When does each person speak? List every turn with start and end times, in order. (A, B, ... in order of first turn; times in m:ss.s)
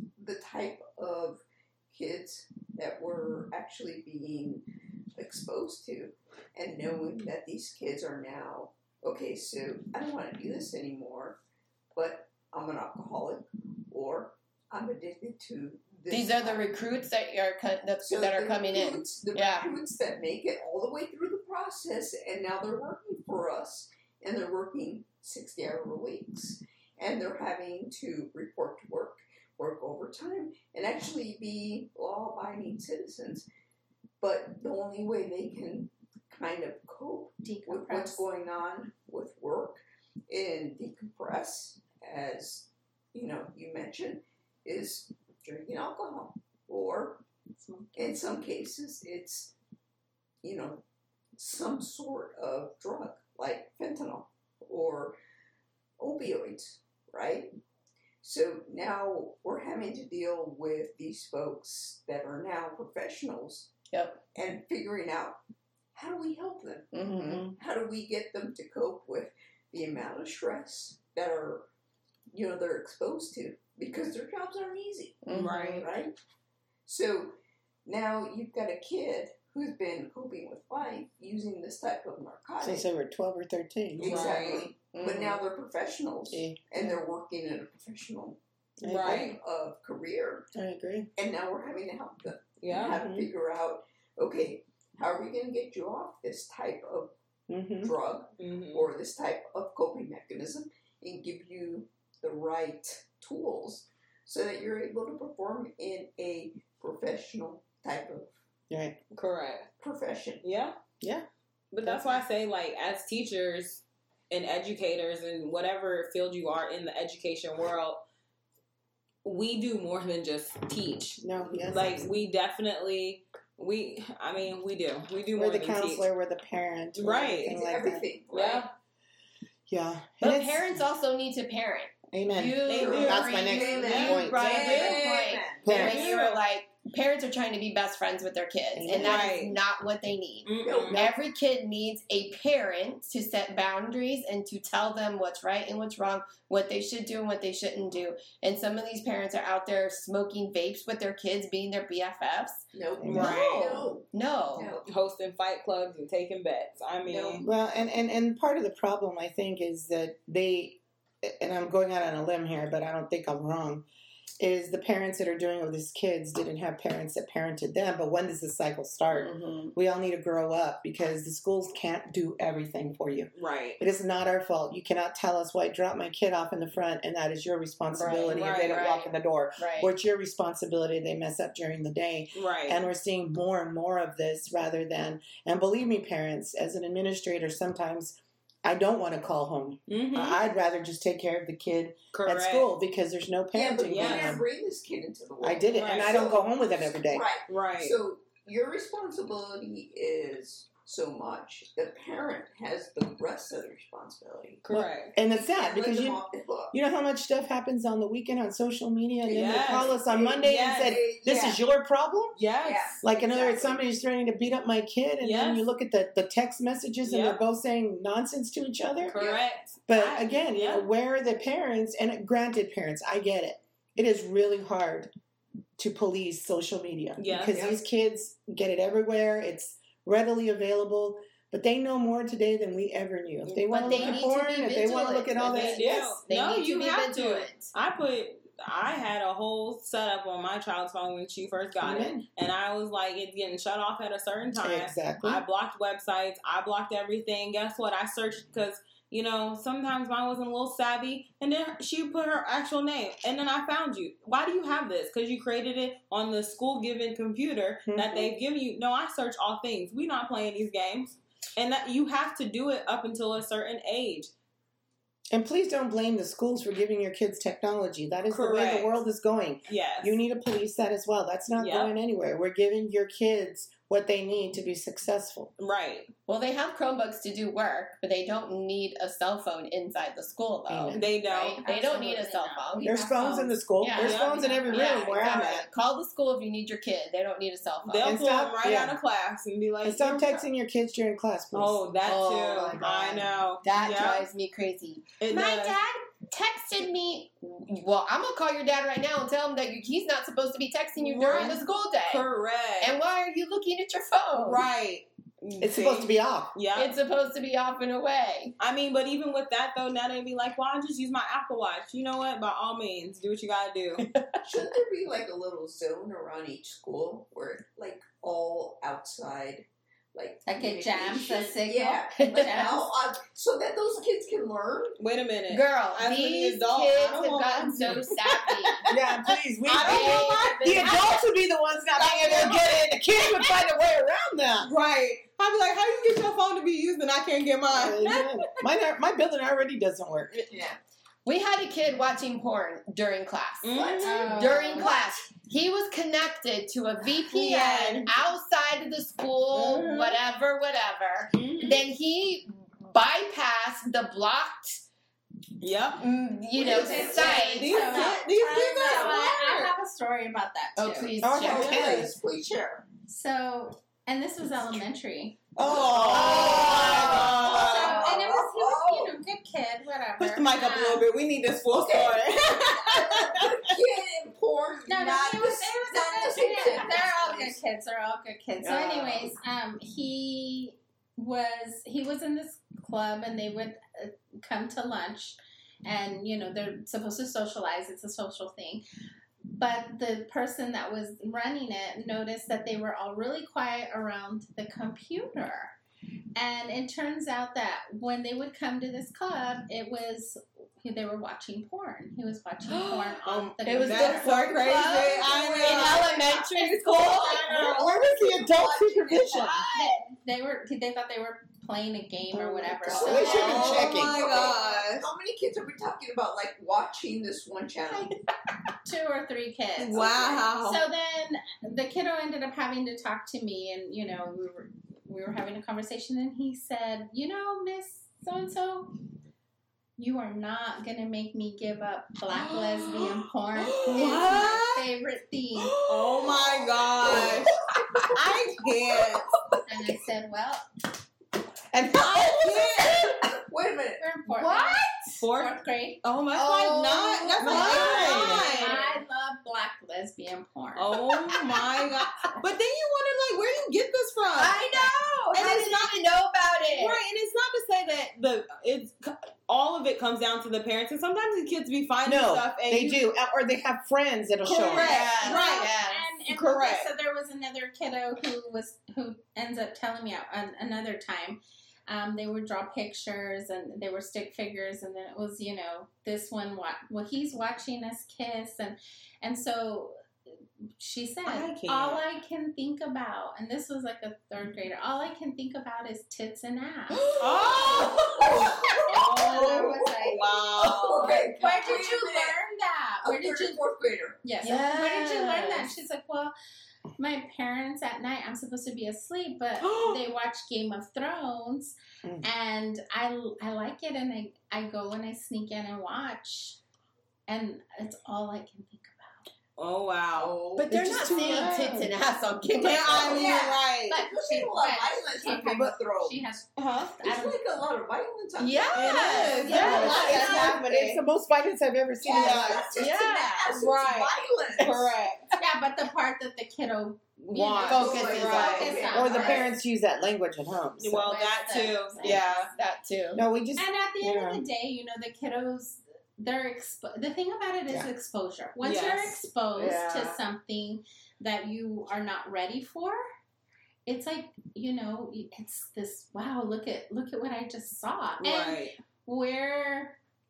0:00.2-0:04.6 A
0:05.2-0:11.4 A
0:11.9-0:16.7 A
0:16.1-0:19.7 B
0:18.0-0:33.5 A
0:34.2-0:47.2 A
0:37.4-0:38.2 C
0:47.6-0:48.3 C
0:47.9-0:49.5 A
0:50.4-0:50.8 A
0:51.4-0:55.2 A
0:56.0-0:57.5 A
0:58.2-1:03.7 A
1:03.9-1:04.2 B
1:04.3-1:05.4 A
1:06.0-1:11.7 A
1:06.9-1:07.5 B
1:12.3-1:16.2 A
1:15.2-1:15.9 B
1:15.3-1:15.9 D
1:16.9-1:22.9 A
1:22.6-1:24.5 E
1:24.0-1:28.4 A
1:24.0-1:24.7 D
1:24.3-1:25.4 B
1:26.3-1:27.0 E
1:28.8-1:29.3 E
1:28.8-1:29.4 D
1:29.0-1:30.5 A
1:30.5-1:31.1 E
1:31.2-1:37.1 A
1:32.6-1:33.0 D
1:32.7-1:33.3 E
1:37.5-1:37.9 E
1:37.8-1:48.3 A
1:38.4-1:38.9 D
1:48.7-1:49.0 E
1:49.1-1:49.7 D
1:49.8-1:50.4 A
1:50.4-1:50.8 D
1:51.0-1:51.3 E
1:51.7-1:58.0 D
1:51.8-1:52.2 E
1:59.2-2:06.1 D
2:01.2-2:02.1 E
2:05.4-2:08.0 E
2:07.0-2:07.6 D
2:07.4-2:08.7 A
2:08.3-2:08.7 D
2:09.7-2:10.8 E
2:10.2-2:34.7 B
2:12.1-2:14.6 E
2:12.7-2:16.4 D
2:12.7-2:15.7 A
2:15.6-2:16.0 E
2:18.7-2:19.3 E
2:19.0-2:19.6 D
2:20.4-2:21.0 D
2:20.6-2:21.0 A
2:20.9-2:21.2 E
2:32.7-2:34.9 A
2:33.0-2:33.4 E
2:33.1-2:33.8 D
2:34.8-2:37.4 D
2:37.1-2:37.4 A
2:37.4-2:43.8 E
2:44.4-3:14.4 E
2:49.1-2:49.7 B
2:53.4-2:53.8 D
2:57.9-2:59.9 B
2:58.3-2:58.9 D
3:02.4-3:02.8 D
3:09.9-3:10.4 D
3:12.1-3:12.7 D
3:13.5-3:24.6 A
3:13.9-3:14.4 D
3:15.4-3:17.3 E
3:15.7-3:16.2 D
3:17.5-3:18.0 D
3:24.6-3:25.2 D
3:24.7-3:26.2 E
3:25.3-3:26.8 A
3:26.7-3:32.4 E
3:29.3-3:31.0 D
3:29.3-3:31.6 A
3:32.4-3:33.0 D
3:32.6-3:33.8 A
3:33.0-3:39.2 E
3:35.2-3:35.6 D
3:37.0-3:37.4 D
3:39.0-3:40.9 D
3:39.1-3:39.4 A
3:39.9-3:45.1 E
3:45.8-3:56.2 E
3:47.2-3:47.7 D
3:47.5-3:47.8 A
3:53.5-3:54.2 D
3:53.7-3:57.7 B
3:55.4-4:24.3 D
4:01.8-4:02.2 E
4:04.6-4:05.4 E
4:17.9-4:18.3 E
4:25.3-4:35.5 E
4:28.3-4:29.0 D
4:29.7-4:30.2 D
4:31.6-4:31.9 D
4:35.6-4:36.1 D
4:36.3-4:48.1 B
4:40.7-4:41.1 E
4:40.9-4:41.6 D
4:41.6-4:43.4 C
4:42.8-4:45.7 E
4:44.0-4:45.6 D
4:47.8-4:50.4 D
4:48.0-4:49.0 E
4:49.8-4:51.8 E
4:51.5-4:54.3 D
4:52.0-5:02.3 B
4:55.2-4:55.8 D
5:01.0-5:03.0 D
5:02.8-5:04.6 B
5:04.3-5:07.0 D
5:05.6-5:06.6 E
5:06.8-5:08.5 B
5:08.6-5:14.1 D
5:14.4-5:25.0 A
5:20.5-5:22.9 C
5:22.4-5:22.7 B
5:25.0-5:29.1 D
5:25.5-5:28.9 B
5:28.9-5:34.7 E
5:29.6-5:31.2 D
5:29.8-5:31.2 B
5:32.0-5:32.8 D
5:34.6-5:38.3 D
5:37.7-5:40.4 E
5:40.5-5:40.8 A
5:41.2-5:54.8 B
5:43.6-5:44.5 D
5:43.7-5:45.1 A
5:44.0-5:44.9 C
5:47.3-5:48.1 D
5:49.5-5:50.2 D
5:51.3-5:51.8 D
5:55.6-5:56.0 D
5:56.0-5:58.0 B
5:56.5-5:59.3 A
5:56.8-5:59.7 D
5:57.0-6:01.2 C
6:00.8-6:02.0 B
6:01.2-6:02.2 E
6:01.4-6:02.9 A
6:03.1-6:05.4 C
6:05.6-6:07.8 E
6:05.6-6:08.1 D
6:05.6-6:09.2 A
6:06.1-6:11.1 C
6:10.2-6:13.6 D
6:11.7-6:17.6 A
6:14.9-6:28.8 C
6:18.6-6:19.2 D
6:29.5-6:35.8 C
6:36.4-6:44.5 C
6:42.6-6:47.6 D
6:43.6-6:47.5 B
6:44.8-6:50.0 A
6:47.4-6:49.6 E
6:49.4-6:54.4 C
6:52.3-6:54.2 E
6:52.9-6:58.1 A
6:53.0-6:55.1 D
6:58.8-7:09.0 C
6:59.8-7:00.8 D
7:10.0-7:15.8 C
7:12.3-7:14.9 D
7:15.8-7:17.6 D
7:15.8-7:20.0 A
7:18.1-7:19.3 D
7:19.7-7:20.7 C
7:21.7-7:23.1 E
7:22.0-7:25.1 A
7:22.0-7:23.0 D
7:24.0-7:26.0 C
7:25.2-7:28.8 D
7:26.4-7:28.8 B
7:27.4-7:28.5 E
7:27.4-7:31.0 C
7:30.8-7:36.0 D
7:30.9-7:31.5 B
7:34.4-7:37.0 B
7:36.7-7:43.0 D
7:42.1-7:45.1 E
7:44.4-7:45.7 D
7:44.6-8:00.0 C
7:44.6-7:46.0 B
7:46.3-7:46.9 D
8:00.8-8:13.6 C
8:01.2-8:02.0 D
8:07.0-8:12.4 A
8:07.2-8:08.1 D
8:08.9-8:11.3 D
8:13.0-8:14.2 A
8:14.2-8:16.3 C
8:14.4-8:15.7 B
8:17.0-8:26.6 C
8:19.6-8:20.0 D
8:27.3-8:29.3 C
8:29.6-8:30.4 D
8:30.1-8:31.5 A
8:30.6-8:33.6 B
8:30.7-8:32.0 E
8:32.6-8:34.0 D
8:32.8-8:36.4 A
8:33.9-8:37.4 C
8:36.6-8:37.0 D
8:37.0-8:40.2 A
8:38.4-8:40.6 B
8:38.7-8:41.0 D
8:39.4-8:40.1 C
8:39.5-8:42.7 E
8:42.0-8:44.9 A
8:42.1-8:42.6 D
8:42.8-8:43.6 B
8:43.5-8:45.3 D
8:45.4-8:49.5 C
8:47.2-8:48.8 D
8:47.5-8:49.5 A
8:47.7-8:49.2 B
8:48.9-8:51.1 E
8:50.8-8:52.5 D
8:51.1-8:53.2 B
8:52.0-8:52.3 C
8:53.1-8:54.4 E
8:53.6-9:03.0 C
8:58.6-9:00.0 D
8:59.6-9:00.0 E
9:03.9-9:10.0 C
9:08.2-9:08.8 D